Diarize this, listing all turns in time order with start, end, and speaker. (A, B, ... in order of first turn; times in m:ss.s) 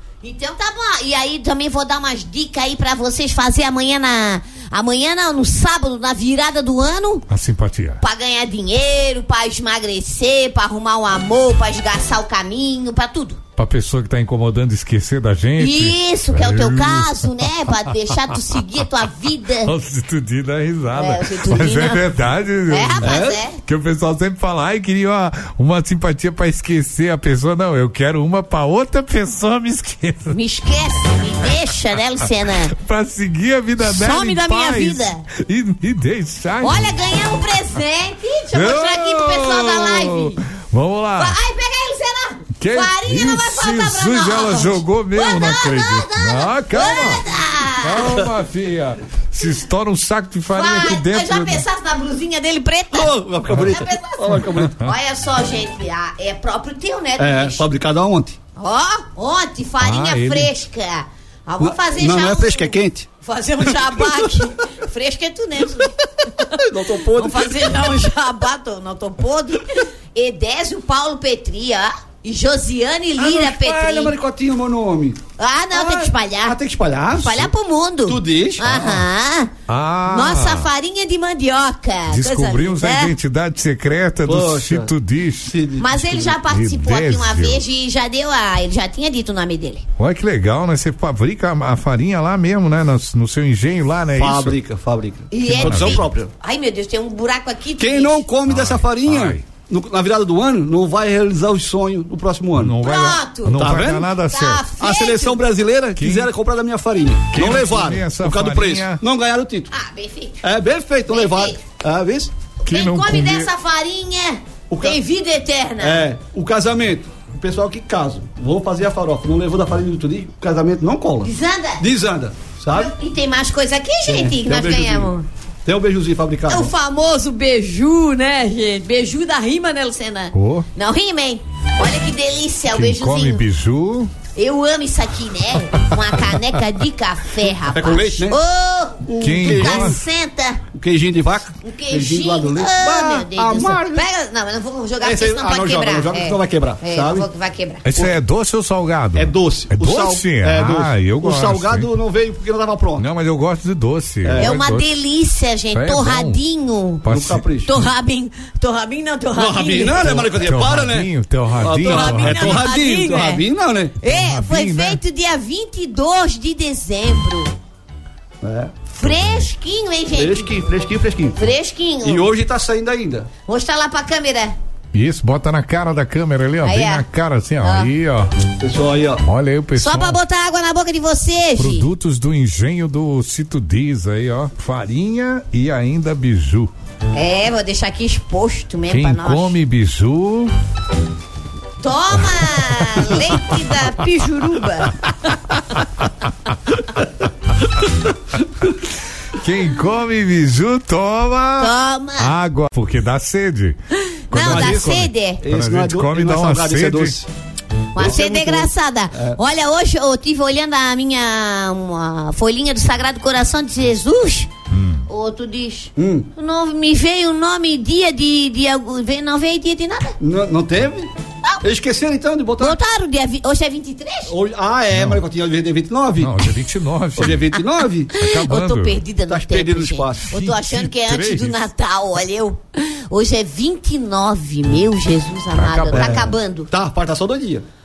0:00.2-0:07.2 A
0:07.3-0:08.0 B
0:08.0-0:13.4 A
0:13.6-0:17.2 B
0:15.6-0:19.7 A
0:19.6-0:30.4 B
0:20.9-0:22.0 A
0:22.7-0:23.6 A
0:23.0-0:23.4 C
0:30.3-0:32.7 A
0:32.7-0:36.9 B
0:33.8-0:35.2 A
0:36.6-0:40.4 A
0:38.5-0:41.4 B
0:41.2-0:48.2 A
0:42.6-0:47.2 B
0:47.8-0:51.6 B
0:50.5-0:57.6 A
0:52.9-0:54.7 C
0:57.2-0:58.4 C
0:58.6-1:14.1 A
0:59.8-1:00.5 B
1:01.6-1:03.1 C
1:03.7-1:03.9 C
1:06.6-1:08.0 C
1:13.2-1:15.2 C
1:15.4-1:16.6 A
1:15.7-1:17.5 C
1:17.1-1:19.5 A
1:18.0-1:19.0 C
1:19.7-1:20.6 B
1:20.1-1:23.1 A
1:22.1-1:25.5 B
1:24.2-1:26.4 C
1:25.8-1:29.8 A
1:26.3-1:27.6 B
1:30.0-1:34.6 B
1:34.2-1:36.3 C
1:35.3-1:38.2 A
1:35.6-1:36.0 B
1:37.8-1:42.8 C
1:38.5-1:39.4 B
1:42.6-1:44.7 B
1:42.8-1:45.4 A
1:43.6-1:44.1 C
1:44.8-1:49.7 C
1:46.0-1:46.3 B
1:47.3-1:49.0 B
1:49.7-1:50.4 A
1:50.4-1:52.3 C
1:51.1-1:51.6 A
1:52.6-1:56.0 A
1:52.7-1:53.5 B
1:54.7-1:55.0 C
1:55.8-2:02.9 C
2:01.2-2:01.8 A
2:02.7-2:05.2 A
2:04.0-2:05.1 C
2:05.6-2:06.7 C
2:06.5-2:13.4 A
2:10.3-2:10.6 B
2:12.7-2:14.1 B
2:14.4-2:20.6 A
2:17.7-2:18.4 C
2:19.0-2:20.0 C
2:19.2-2:20.0 B
2:20.7-2:24.1 C
2:21.6-2:27.8 A
2:25.0-2:27.3 C
2:27.8-2:31.9 B
2:29.1-2:33.0 C
2:33.0-2:34.9 B
2:34.2-2:34.6 C
2:34.3-2:37.0 A
2:35.7-2:36.4 B
2:37.0-2:37.5 B
2:37.1-2:37.7 C
2:37.6-2:40.2 A
2:39.4-2:44.0 C
2:40.4-2:42.7 B
2:41.8-2:43.4 A
2:44.0-2:47.5 A
2:44.0-2:45.0 B
2:48.4-2:48.9 C
2:49.0-2:50.5 A
2:49.0-2:49.4 B
2:50.1-2:51.4 C
2:51.4-2:52.3 A
2:52.0-2:53.3 C
2:53.4-2:54.6 A
2:54.9-2:58.3 B
2:56.6-2:57.0 A
2:57.6-2:57.9 A
2:58.6-2:59.2 C
2:59.2-3:00.2 B
2:59.8-3:01.9 A
3:01.6-3:06.7 B
3:07.1-3:09.6 A
3:08.9-3:10.5 B
3:11.8-3:15.1 A
3:12.5-3:13.4 B
3:19.3-3:23.8 B
3:21.6-3:22.3 A
3:24.3-3:25.4 A
3:24.3-3:27.2 B
3:24.4-3:27.3 C
3:27.9-3:34.5 A
3:28.0-3:29.4 C
3:34.7-3:35.0 B
3:35.1-3:40.2 A
3:36.0-3:36.3 C
3:40.2-3:41.1 C
3:41.6-3:42.8 C
3:42.6-3:44.3 A
3:44.3-3:46.5 C
3:44.9-3:45.2 B
3:46.2-3:47.5 B
3:47.2-3:48.1 C
3:47.2-3:47.6 A
3:48.1-3:56.7 A
3:48.2-3:49.0 B
3:49.3-3:50.3 C
3:50.2-3:51.6 B
3:55.5-3:56.2 B
3:56.0-3:57.6 C